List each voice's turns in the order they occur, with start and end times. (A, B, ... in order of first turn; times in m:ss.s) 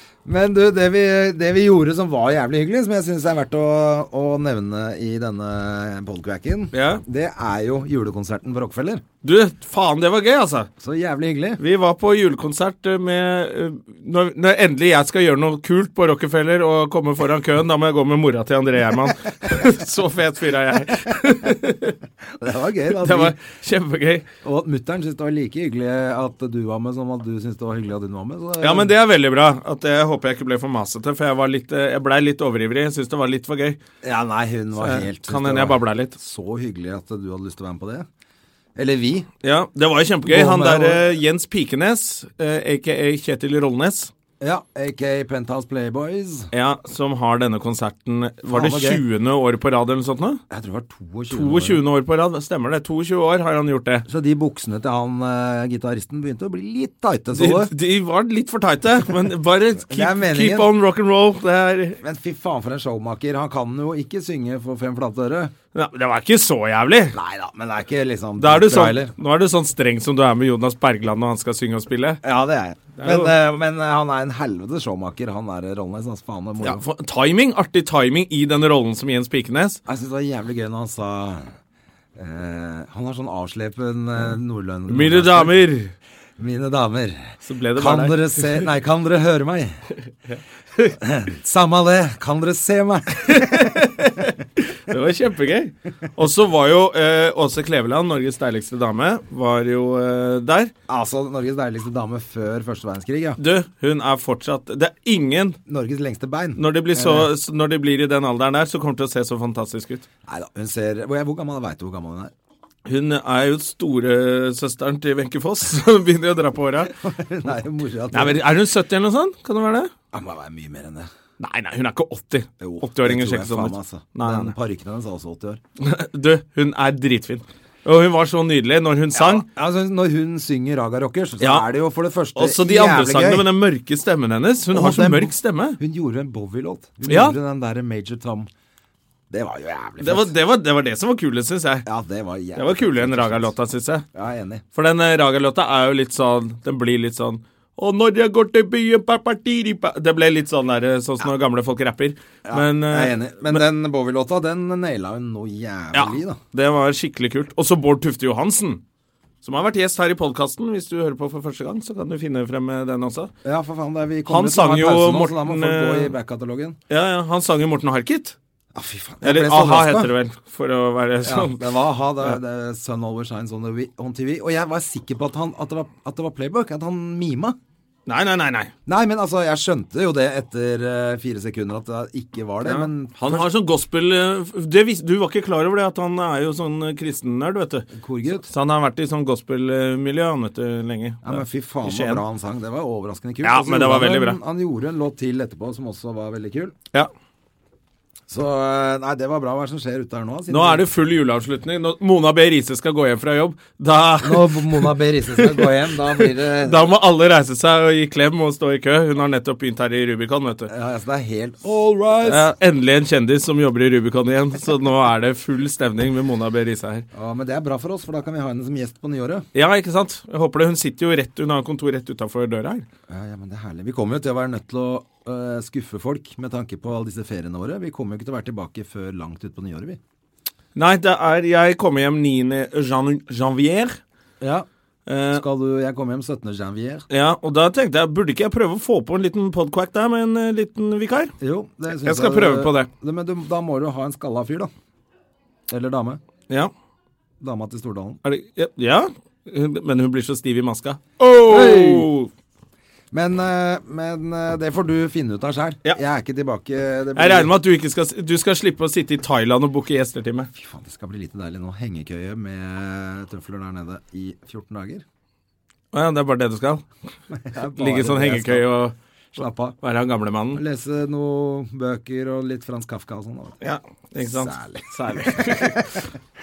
0:00.2-0:09.0 A
0:06.7-0:07.0 B
0:09.2-0:10.7 B
0:10.8-0:11.6 A
0:11.6-0:21.9 B
0:22.4-0:23.4 A
0:23.0-0:24.3 B
0:24.4-0:28.9 A
0:28.6-0:33.8 B
0:34.0-0:38.1 A
0:34.8-0:36.2 B
0:38.8-0:39.3 A
0:39.4-0:44.1 B
0:40.2-0:41.1 A
0:44.4-0:46.5 A
0:46.5-0:50.4 B
0:48.5-0:49.0 A
0:50.5-0:51.8 A
0:51.3-0:54.0 B
0:54.1-0:57.7 A
0:57.3-1:02.0 B
0:59.8-1:00.7 A
1:02.0-1:05.5 A
1:05.7-1:07.2 B
1:07.1-1:09.1 A
1:08.4-1:12.2 B
1:12.2-1:16.8 A
1:13.0-1:13.3 B
1:16.6-1:19.8 B
1:19.9-1:21.5 A
1:22.2-1:25.5 A
1:24.9-1:25.9 B
1:26.4-1:29.8 A
1:27.5-1:28.7 B
1:30.3-1:30.9 B
1:31.0-1:33.8 A
1:33.2-1:40.7 B
1:40.9-1:43.4 A
1:43.4-1:45.6 B
1:45.7-1:47.3 A
1:46.6-1:50.0 B
1:50.3-1:52.3 A
1:52.8-1:56.9 B
1:57.0-1:58.4 A
1:58.1-1:59.9 B
2:00.1-2:01.1 A
2:01.4-2:04.5 B
2:02.6-2:05.6 A
2:05.8-2:09.5 B
2:09.1-2:13.5 A
2:11.4-2:11.7 B
2:12.4-2:15.8 B
2:14.7-2:18.5 A
2:17.1-2:17.4 B
2:19.3-2:20.3 A
2:20.0-2:21.9 B
2:21.8-2:23.5 A
2:22.6-2:24.0 B
2:24.1-2:24.6 A
2:24.7-2:33.6 B
2:32.5-2:36.4 A
2:35.9-2:38.8 B
2:39.4-2:43.3 B
2:43.4-2:46.8 A
2:44.3-2:46.1 B
2:46.9-2:48.4 B
2:48.7-2:50.1 A
2:49.2-2:51.6 B
2:51.2-2:57.6 A
2:58.1-2:58.7 B
2:58.8-3:03.5 A
3:02.6-3:07.9 B
3:07.9-3:08.5 A
3:08.4-3:12.2 B
3:11.2-3:16.7 A
3:13.4-3:14.4 B
3:18.3-3:20.8 A
3:20.5-3:30.7 B
3:24.2-3:26.9 A
3:30.7-3:32.5 A
3:32.2-3:37.0 B
3:37.1-3:39.4 A
3:39.5-3:42.8 B
3:43.1-3:50.0 A
3:50.8-3:54.0 B
3:54.4-3:54.7 A
3:55.1-3:55.4 B
3:55.3-3:57.1 A
3:57.1-4:01.3 B
4:01.4-4:04.7 A
4:02.0-4:02.9 B
4:05.7-4:06.2 A
4:07.4-4:08.2 A
4:08.2-4:12.3 B
4:11.5-4:12.1 A
4:13.1-4:17.5 A
4:17.2-4:20.5 B
4:20.5-4:25.0 A
4:25.9-4:26.8 B
4:27.3-4:28.7 A
4:27.8-4:28.9 B
4:29.4-4:29.8 A
4:29.8-4:30.6 B
4:30.5-4:33.6 A
4:33.6-4:35.8 B
4:34.2-4:36.1 A